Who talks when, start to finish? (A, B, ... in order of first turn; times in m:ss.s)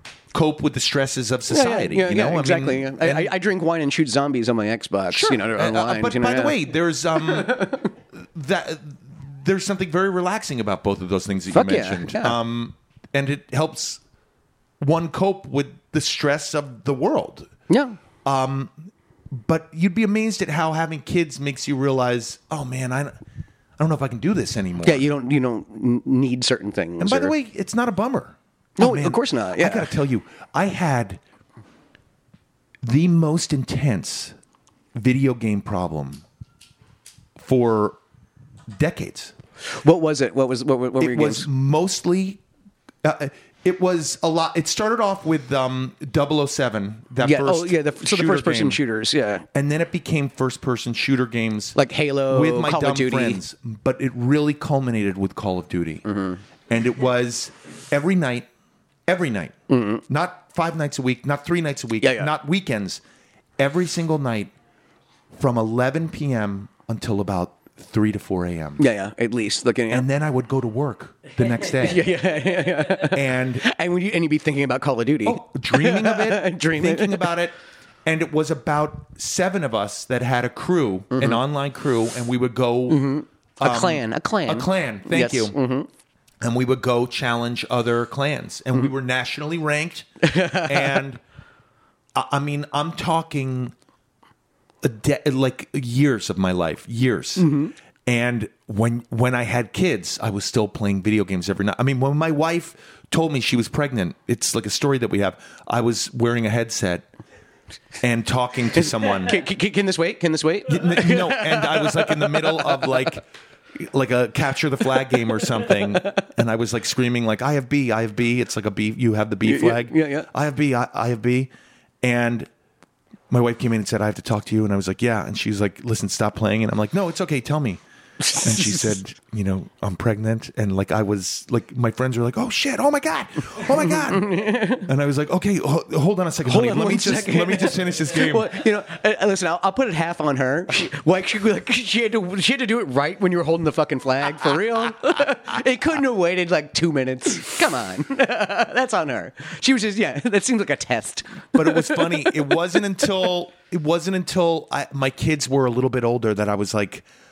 0:00.3-0:03.3 A
0:01.5-0:06.6 B
0:05.1-0:14.0 A
0:07.3-0:07.8 B
0:11.5-0:12.4 B
0:14.8-0:17.5 A
0:17.7-0:18.0 B
0:18.2-0:23.2 A
0:23.8-0:25.1 A
0:24.8-0:27.3 B
0:27.0-0:31.2 A
0:28.8-0:29.9 B
0:32.8-0:34.3 A
0:34.9-0:36.2 A
0:37.4-0:38.0 A
0:38.7-0:39.3 A
0:39.6-0:41.5 B
0:41.0-0:42.4 A
0:43.0-0:48.8 A
0:47.2-0:49.4 B
0:49.5-0:51.8 A
0:51.7-0:53.4 B
0:52.3-0:56.0 A
0:56.0-0:56.4 B
0:56.7-0:58.5 A
0:59.1-0:59.5 A
0:59.7-1:00.0 B
1:00.1-1:03.0 A
1:02.0-1:02.3 B
1:03.6-1:04.5 A
1:05.3-1:08.9 A
1:08.8-1:10.0 B
1:09.9-1:12.1 A
1:11.8-1:17.3 B
1:13.0-1:13.6 A
1:15.2-1:25.6 A
1:21.1-1:21.4 B
1:22.9-1:25.9 B
1:26.4-1:31.2 A
1:30.2-1:31.0 B
1:32.1-1:33.7 A
1:34.8-1:37.5 A
1:37.4-1:37.7 B
1:38.0-1:47.1 A
1:48.0-1:49.4 A
1:48.7-1:53.1 B
1:50.7-2:01.5 A
1:55.7-1:56.2 B
1:59.4-2:00.3 B
2:02.0-2:02.5 A
2:03.3-2:07.8 A
2:08.2-2:08.9 B
2:08.4-2:18.6 A
2:13.8-2:14.9 B
2:16.4-2:32.6 B
2:31.5-2:37.0 A